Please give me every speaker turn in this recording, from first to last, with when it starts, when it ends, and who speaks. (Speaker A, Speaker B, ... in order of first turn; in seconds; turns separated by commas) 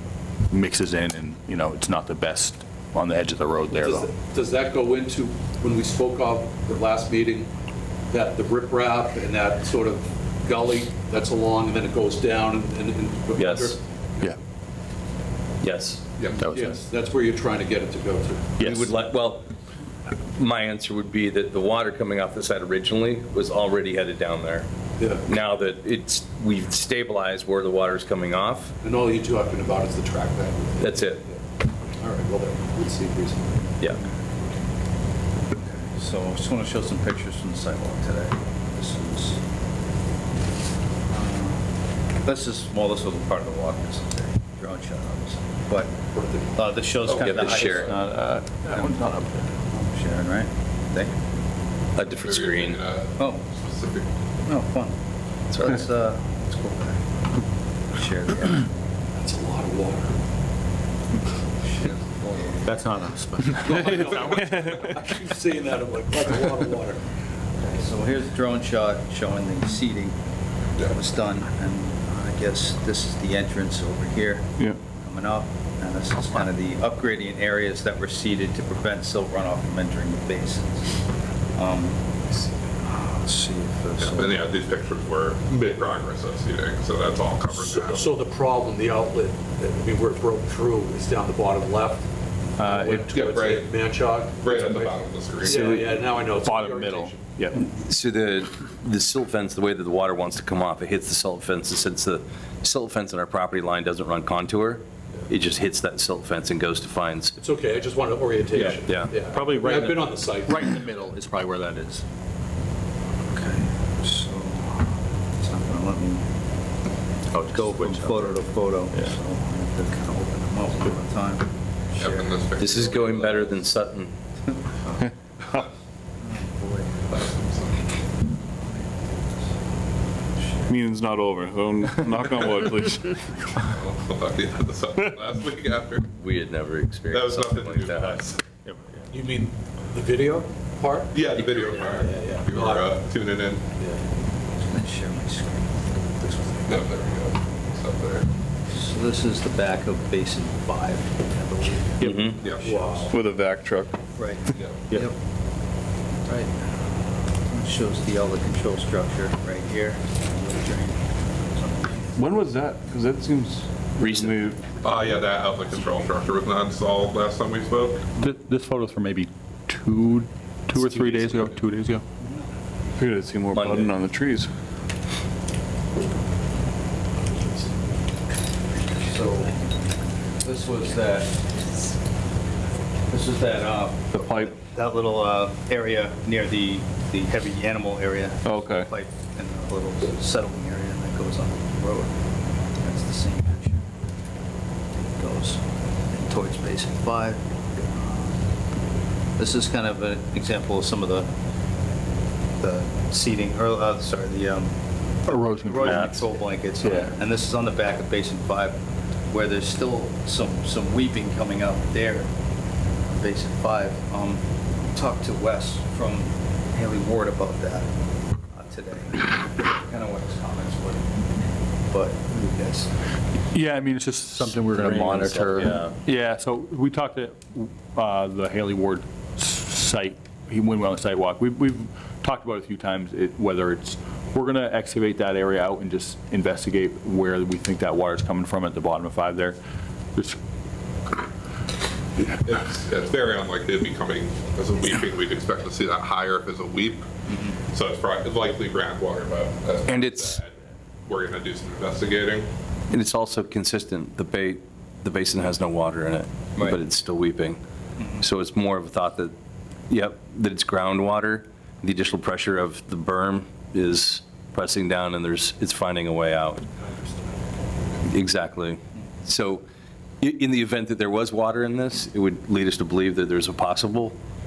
Speaker A: 0.5-4.1, Speaker B: 3.7-7.5, Speaker B: 8.1-14.3, Speaker C: 13.4-13.8, Speaker C: 15.6-16.0, Speaker D: 16.2-16.5, Speaker B: 16.3-18.6, Speaker A: 16.4-16.7, Speaker A: 18.6-18.9, Speaker C: 18.6-19.5, Speaker C: 20.1-24.7, Speaker B: 25.0-25.3, Speaker C: 25.2-28.7, Speaker B: 28.8-31.4, Speaker C: 30.8-31.2, Speaker B: 32.0-33.8, Speaker E: 35.5-39.4, Speaker E: 41.1-41.6, Speaker E: 42.2-46.0, Speaker B: 46.1-46.6, Speaker E: 46.5-47.9, Speaker C: 47.0-47.9, Speaker D: 47.1-47.9, Speaker A: 47.9-49.5, Speaker E: 49.7-51.2, Speaker C: 52.0-52.8, Speaker D: 52.0-54.1, Speaker E: 53.2-53.4, Speaker E: 54.5-55.0, Speaker E: 55.5-57.0, Speaker E: 57.9-58.7, Speaker B: 59.2-60.2, Speaker E: 61.6-62.8, Speaker A: 62.6-64.0, Speaker B: 63.6-67.0, Speaker D: 63.7-64.6, Speaker E: 67.6-70.2, Speaker E: 70.9-81.0, Speaker E: 81.5-82.0, Speaker E: 82.8-84.5, Speaker D: 84.0-88.1, Speaker B: 87.5-92.1, Speaker A: 92.6-93.1, Speaker B: 92.6-97.2, Speaker D: 93.1-93.7, Speaker D: 94.4-95.8, Speaker A: 95.4-97.6, Speaker C: 97.8-107.3, Speaker B: 107.4-110.8, Speaker A: 108.5-112.0, Speaker C: 108.8-109.1, Speaker E: 113.3-116.2, Speaker A: 117.3-118.2, Speaker E: 117.5-122.3, Speaker D: 122.0-123.7, Speaker C: 122.6-124.1, Speaker E: 124.5-125.1, Speaker E: 126.2-127.0, Speaker D: 127.1-127.8, Speaker E: 128.5-129.6, Speaker E: 130.4-130.7, Speaker F: 130.7-133.5, Speaker D: 133.6-136.1, Speaker C: 136.1-138.2, Speaker D: 137.1-138.4, Speaker A: 138.0-139.1, Speaker B: 139.1-142.9, Speaker D: 141.1-143.6, Speaker B: 143.8-144.0, Speaker E: 144.5-146.9, Speaker D: 146.7-148.3, Speaker E: 148.7-153.1, Speaker C: 152.0-152.4, Speaker D: 152.4-152.8, Speaker B: 152.5-153.1, Speaker F: 153.1-154.0, Speaker E: 154.2-155.2, Speaker D: 154.5-154.8, Speaker E: 156.2-156.7, Speaker E: 157.4-162.2, Speaker F: 162.2-164.8, Speaker C: 164.0-164.3, Speaker D: 164.8-168.0, Speaker A: 168.2-172.0, Speaker F: 172.9-174.5, Speaker C: 173.5-173.9, Speaker E: 179.0-179.7, Speaker E: 180.4-181.5, Speaker E: 183.1-192.2, Speaker F: 184.1-184.6, Speaker F: 188.4-188.9, Speaker E: 192.8-193.9, Speaker E: 194.9-198.4, Speaker E: 199.4-201.3, Speaker E: 202.6-204.7, Speaker E: 205.2-212.3, Speaker A: 205.3-206.2, Speaker C: 205.8-206.2, Speaker A: 206.8-207.1, Speaker E: 213.1-217.9, Speaker E: 218.5-222.9, Speaker A: 223.5-239.6, Speaker C: 224.4-225.9, Speaker D: 242.3-247.1, Speaker E: 247.3-247.6, Speaker D: 247.7-250.5, Speaker C: 249.9-250.4, Speaker D: 251.1-252.5, Speaker C: 252.9-257.6, Speaker E: 258.0-258.2, Speaker C: 258.2-259.3, Speaker C: 259.9-266.7, Speaker C: 268.1-269.6, Speaker C: 270.2-274.2